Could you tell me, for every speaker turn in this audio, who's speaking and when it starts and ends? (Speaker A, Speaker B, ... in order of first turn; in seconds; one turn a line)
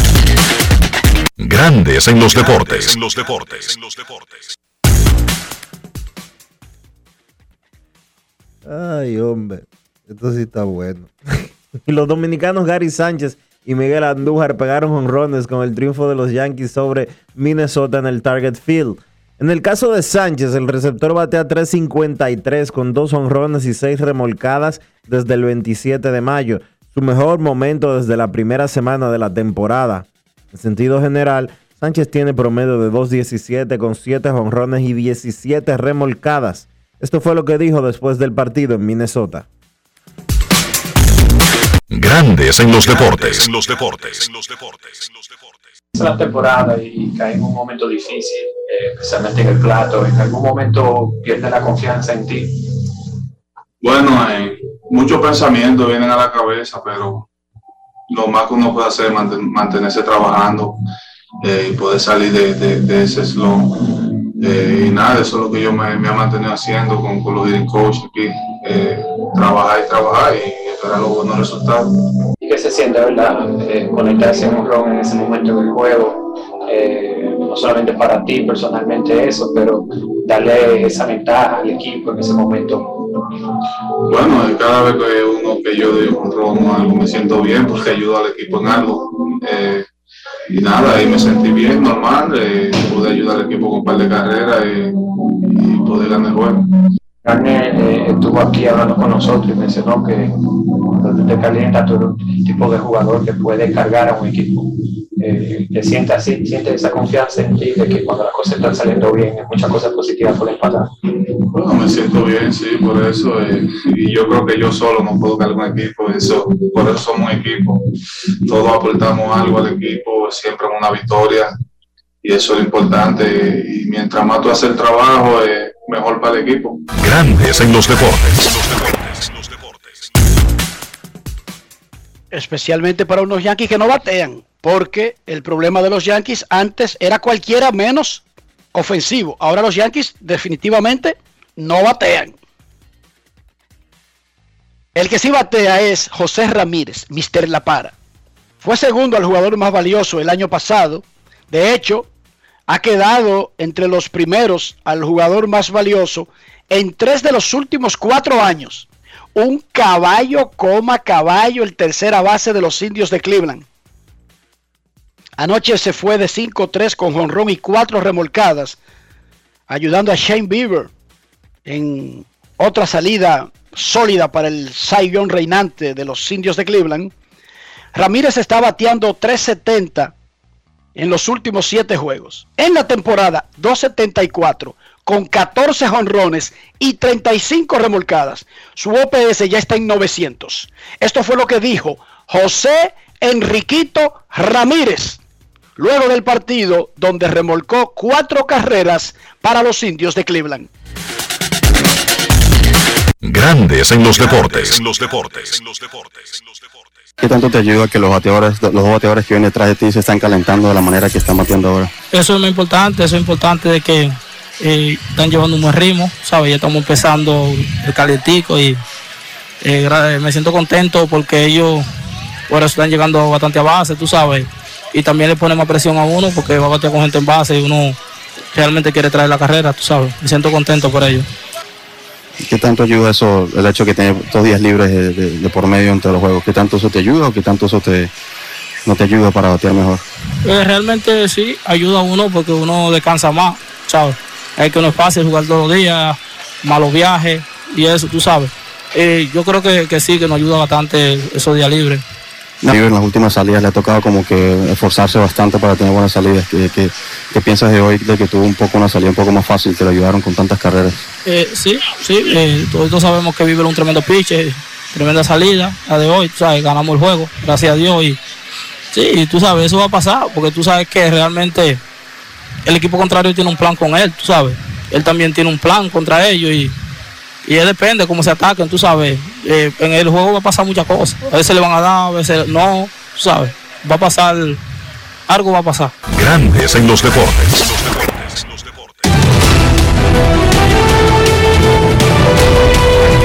Speaker A: 1.4-4.5
Speaker B: 8.6-39.5
Speaker A: 41.9-45.7
Speaker C: 45.9-52.6
Speaker D: 53.8-57.2
Speaker D: 58.1-60.8
Speaker D: 61.4-72.0
Speaker C: 72.4-83.1
Speaker D: 84.1-89.9
Speaker D: 90.5-96.7
Speaker C: 97.2-110.9
Speaker D: 111.5-117.8
Speaker D: 118.5-121.5
Speaker D: 122.2-126.8
Speaker A: 127.0-130.1
Speaker E: 132.3-142.4
Speaker E: 144.9-147.9
Speaker E: 148.6-152.1
Speaker E: 152.7-163.7
Speaker E: 165.4-168.8
Speaker E: 169.7-170.9
Speaker E: 171.7-177.1
Speaker E: 177.9-180.1
Speaker E: 180.9-195.2
Speaker E: 195.8-200.7
Speaker A: 203.2-206.9
Speaker F: 207.2-211.9
Speaker G: 212.1-218.8
Speaker G: 219.6-221.8
Speaker G: 222.5-228.0
Speaker G: 228.5-231.2
Speaker F: 232.4-238.1
Speaker F: 238.8-240.0
Speaker G: 240.4-252.0
Speaker F: 252.6-261.0
Speaker G: 261.2-268.2
Speaker G: 268.9-271.8
Speaker G: 272.6-276.7
Speaker G: 277.5-284.6
Speaker G: 285.3-285.9
Speaker A: 286.1-289.1